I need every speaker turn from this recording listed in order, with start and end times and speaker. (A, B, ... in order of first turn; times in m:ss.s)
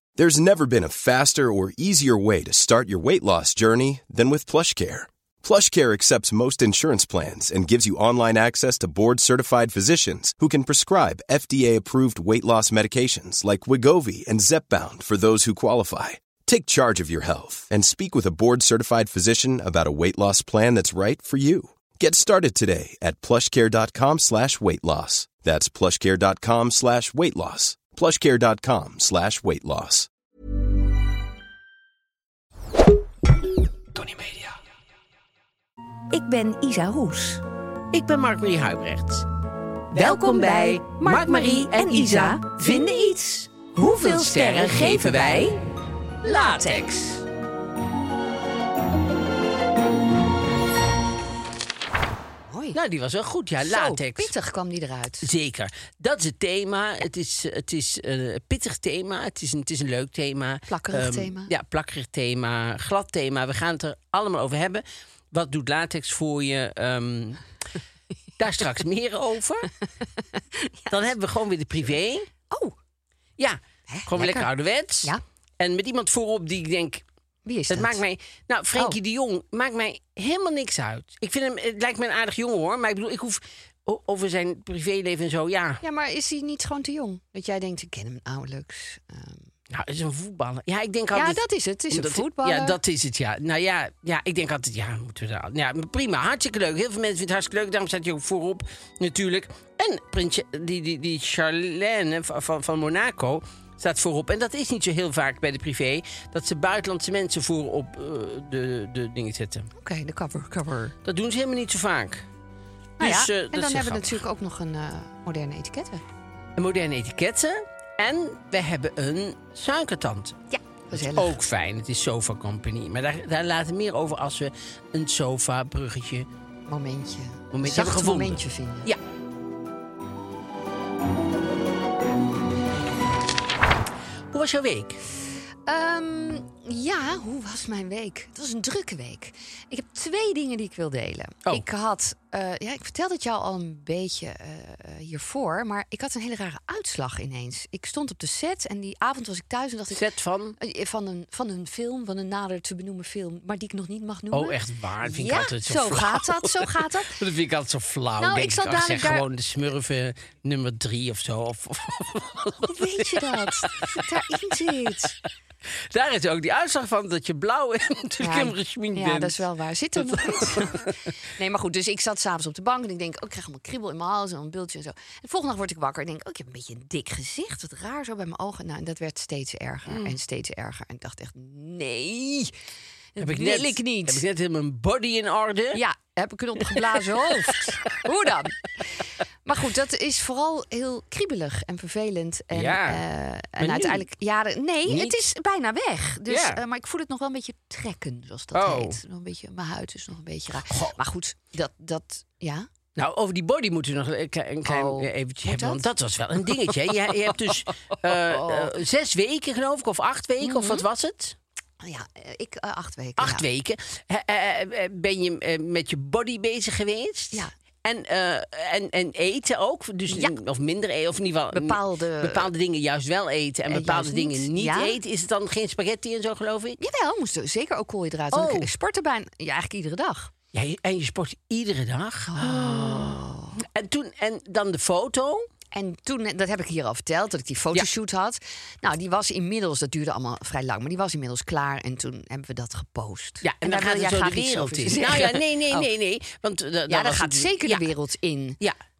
0:00.2-0:30.1 A
0:34.0-0:34.5 B
0:36.1-0:37.4 C
0:37.9-0:39.2 B
0:39.9-0:43.0 B
0:39.9-0:45.6 C
0:43.6-0:45.6 B
0:46.2-0:47.2 C
0:46.2-0:47.0 B
0:52.5-0:52.8 C
0:52.7-0:54.3 B
0:53.6-0:55.3 C
0:55.2-1:07.4 B
1:00.7-1:01.5 C
1:08.4-1:09.7 B
1:10.9-1:12.3 B
1:12.5-1:12.7 C
1:13.4-1:17.0 B
1:13.9-1:14.5 C
1:17.4-1:18.0 C
1:17.7-1:25.8 B
1:25.8-1:29.4 C
1:29.7-1:49.7 B
1:31.1-1:32.8 C
1:49.8-1:50.9 C
1:51.0-1:52.2 B
1:53.0-1:54.2 B
1:53.0-1:56.0 C
1:56.6-2:00.4 B
2:00.5-2:01.4 C
2:00.9-2:06.3 B
2:06.7-2:08.9 C
2:07.5-2:09.0 B
2:14.3-2:15.0 B
2:15.6-2:30.0 C
2:29.9-2:30.6 B
2:30.6-2:37.2 C
2:34.3-2:44.0 B
2:38.2-2:39.2 C
2:42.6-2:45.1 C
2:45.9-2:49.4 B
2:48.2-3:02.5 C
2:50.0-2:50.9 B
2:59.9-3:00.1 B
3:03.1-3:04.2 C
3:03.2-3:05.8 B
3:05.7-3:08.9 C
3:09.4-3:22.7 C
3:12.5-3:13.0 B
3:13.6-3:14.0 B
3:14.8-3:15.2 B
3:16.3-3:16.6 B
3:18.5-3:19.0 B
3:20.7-3:21.0 B
3:23.0-3:31.4 B
3:24.6-3:25.8 C
3:28.1-3:28.7 C
3:30.4-3:30.8 C
3:31.8-3:33.4 C
3:33.2-3:46.8 B
3:40.1-3:40.4 C
3:41.5-3:42.5 C
3:43.7-3:45.0 C
3:46.8-3:50.3 C
3:48.3-3:48.7 B
3:50.5-3:55.5 B
3:52.3-3:53.6 C
3:55.7-4:05.9 C
4:03.4-4:07.9 B
4:06.9-4:08.6 C